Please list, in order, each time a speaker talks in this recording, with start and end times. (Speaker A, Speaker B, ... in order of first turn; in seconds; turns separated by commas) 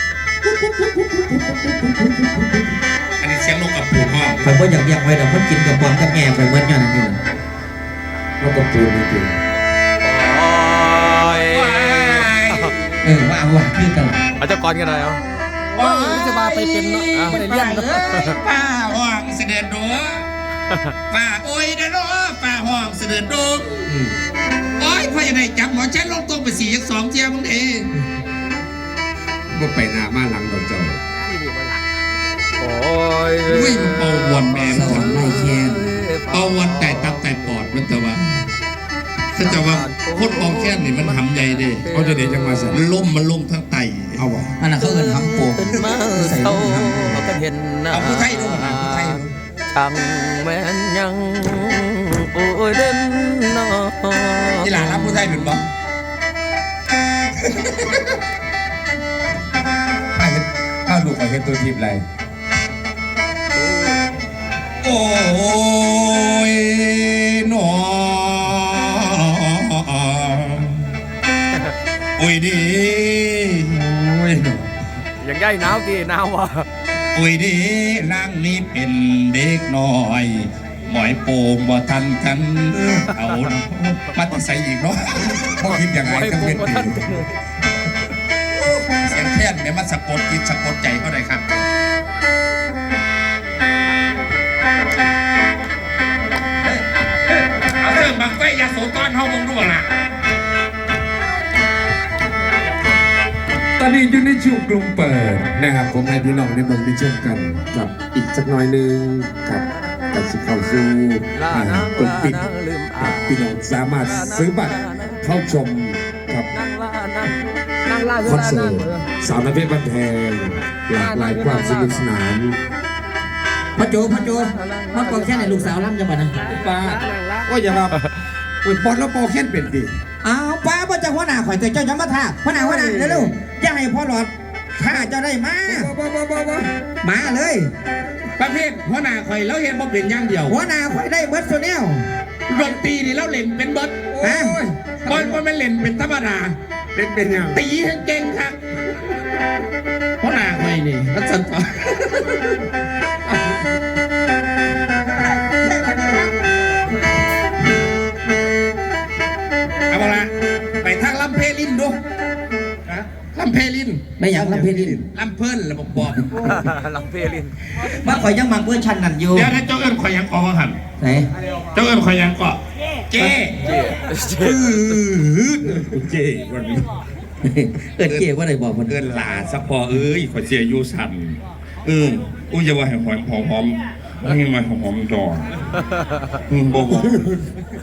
Speaker A: 0.5-2.6, Speaker B: 3.2-4.6, Speaker A: 4.4-7.2, Speaker C: 8.4-9.3, Speaker D: 10.0-12.7, Speaker B: 11.4-12.8, Speaker A: 13.0-14.2, Speaker D: 14.4-15.2, Speaker B: 15.8-20.3, Speaker D: 15.8-18.4, Speaker A: 15.9-18.3, Speaker B: 21.1-23.9, Speaker C: 23.9-24.1, Speaker B: 24.8-27.9, Speaker C: 29.5-31.0, Speaker D: 32.6-37.7, Speaker B: 33.5-35.3, Speaker A: 34.7-36.0, Speaker B: 36.3-38.2, Speaker B: 39.4-44.5, Speaker D: 39.4-42.7, Speaker C: 42.0-42.9, Speaker C: 44.2-44.5, Speaker A: 44.6-47.3, Speaker D: 44.8-55.6, Speaker B: 47.9-49.3, Speaker B: 54.6-55.6, Speaker B: 57.5-58.1, Speaker B: 60.1-62.0, Speaker C: 61.0-61.4, Speaker D: 63.6-64.0, Speaker B: 64.8-70.9, Speaker B: 72.2-74.7, Speaker D: 75.2-76.7, Speaker B: 77.1-87.1, Speaker D: 83.1-83.5, Speaker D: 85.6-87.3, Speaker B: 88.5-91.5, Speaker B: 97.5-99.9, Speaker C: 103.8-112.5, Speaker D: 111.3-115.2, Speaker C: 113.0-116.5, Speaker D: 116.5-119.1, Speaker C: 118.2-122.6, Speaker D: 120.9-122.1, Speaker A: 123.8-126.3, Speaker D: 123.8-125.7, Speaker C: 126.5-128.0, Speaker C: 128.6-129.9, Speaker A: 130.2-135.9, Speaker C: 132.5-133.3, Speaker C: 135.7-136.7, Speaker A: 137.0-137.7, Speaker B: 138.4-140.6, Speaker A: 140.5-142.1, Speaker B: 142.5-144.2, Speaker C: 142.5-142.8, Speaker C: 144.1-145.4, Speaker A: 144.2-144.6, Speaker B: 145.1-146.6, Speaker C: 146.9-147.6, Speaker B: 147.5-148.6, Speaker B: 150.2-152.6, Speaker A: 155.1-156.3, Speaker B: 159.9-162.0, Speaker B: 162.9-166.6, Speaker A: 164.2-165.0, Speaker D: 166.4-167.5, Speaker A: 168.0-169.5, Speaker B: 169.3-170.8, Speaker A: 171.0-171.3, Speaker B: 171.7-172.6, Speaker B: 173.1-173.7, Speaker D: 173.6-175.0, Speaker B: 174.3-176.9, Speaker A: 177.4-179.0, Speaker B: 178.9-185.5, Speaker B: 186.5-187.5